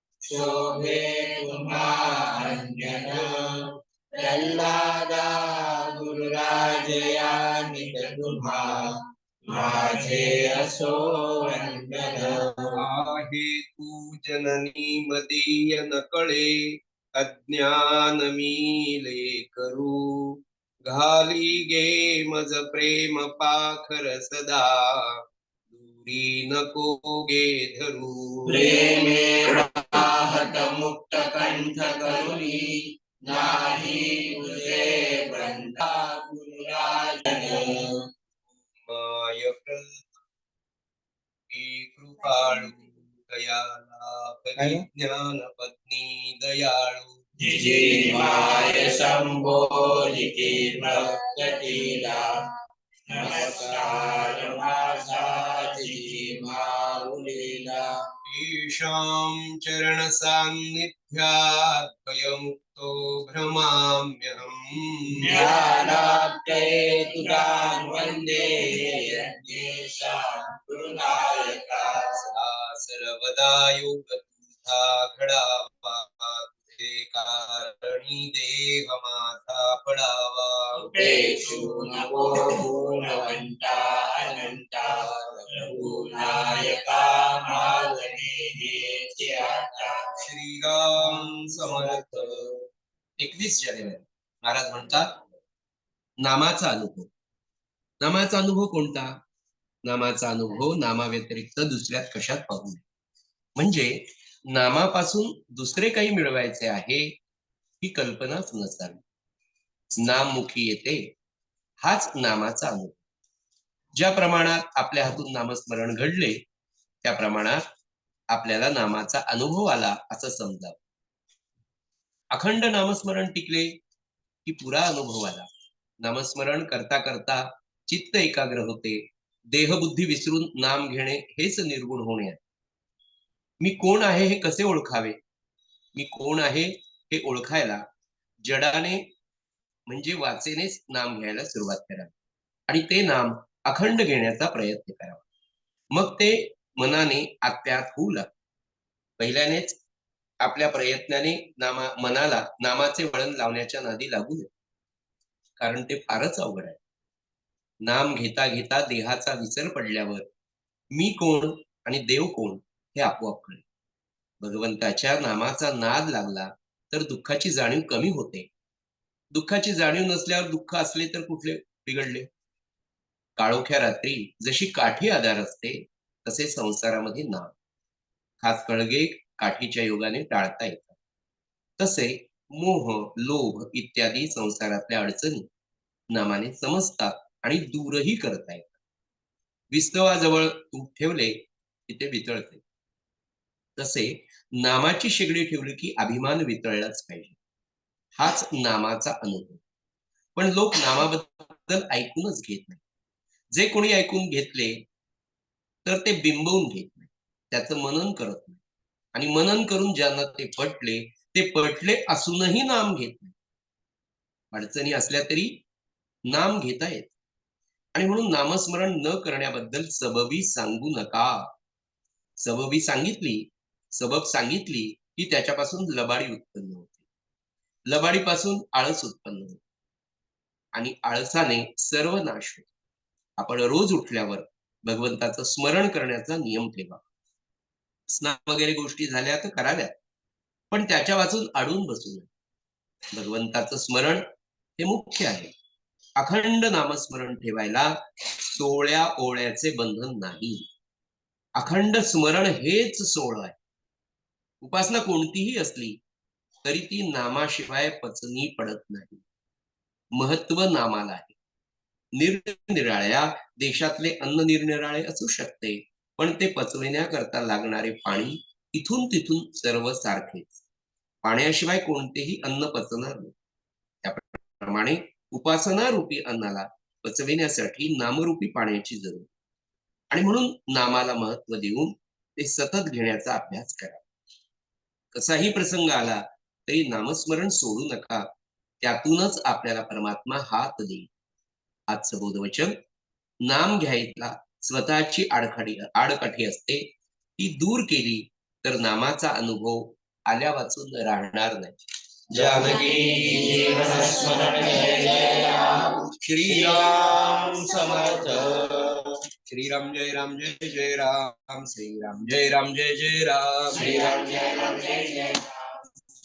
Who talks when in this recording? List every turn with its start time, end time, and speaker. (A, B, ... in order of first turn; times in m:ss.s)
0:00.2-0:09.0 A
0:09.5-0:12.8 A
0:12.8-0:16.6 B
0:17.2-0:28.7 B
0:28.4-0:38.0 A
0:38.8-0:40.1 B
0:41.5-0:47.2 B
0:44.6-0:44.8 A
0:47.4-0:52.4 A
0:53.1-0:57.9 A
0:58.2-1:05.5 B
1:05.2-1:12.2 A
1:12.3-1:20.8 B
1:20.8-1:30.0 A
1:30.2-1:32.4 B
1:33.2-1:35.2 B
1:36.2-1:37.1 B
1:38.0-1:39.2 B
1:39.8-1:42.8 B
1:43.6-1:47.1 B
1:47.8-1:49.0 B
1:50.0-1:51.1 B
1:51.8-1:53.0 B
1:54.0-1:56.4 B
1:57.0-1:57.6 B
1:58.3-2:00.8 B
2:02.3-2:03.7 B
2:04.4-2:05.5 B
2:06.0-2:12.4 B
2:13.6-2:15.2 B
2:15.9-2:17.8 B
2:18.4-2:19.0 B
2:19.9-2:22.1 B
2:22.7-2:25.2 B
2:25.9-2:28.3 B
2:29.2-2:29.8 B
2:30.4-2:34.5 B
2:35.6-2:36.8 B
2:37.8-2:40.3 B
2:40.9-2:43.6 B
2:44.4-2:48.5 B
2:49.3-2:52.3 B
2:53.4-2:57.5 B
2:58.4-3:01.0 B
3:01.8-3:05.5 B
3:06.1-3:08.7 B
3:09.7-3:12.6 B
3:13.8-3:17.4 B
3:18.2-3:19.6 B
3:20.4-3:22.8 B
3:23.5-3:24.8 B
3:25.8-3:28.6 B
3:29.1-3:33.3 B
3:34.5-3:35.6 B
3:36.3-3:37.1 B
3:37.9-3:41.5 B
3:42.4-3:46.9 B
3:47.9-3:49.6 B
3:50.7-3:52.7 B
3:53.4-3:57.0 B
3:58.1-3:59.9 B
4:00.7-4:02.3 B
4:03.1-4:04.2 B
4:04.8-4:05.5 B
4:06.2-4:08.0 B
4:08.5-4:10.6 B
4:11.6-4:13.6 B
4:14.6-4:16.0 B
4:16.6-4:19.2 B
4:20.1-4:21.3 B
4:22.1-4:30.5 B
4:31.2-4:33.3 B
4:34.0-4:39.3 B
4:40.1-4:44.0 B
4:45.1-4:48.3 B
4:48.8-4:51.1 B
4:51.9-4:52.8 B
4:53.4-5:01.8 B
5:02.3-5:04.1 B
5:02.3-5:09.1 A
5:06.2-5:08.6 B
5:09.4-5:13.8 B
5:13.7-5:15.5 A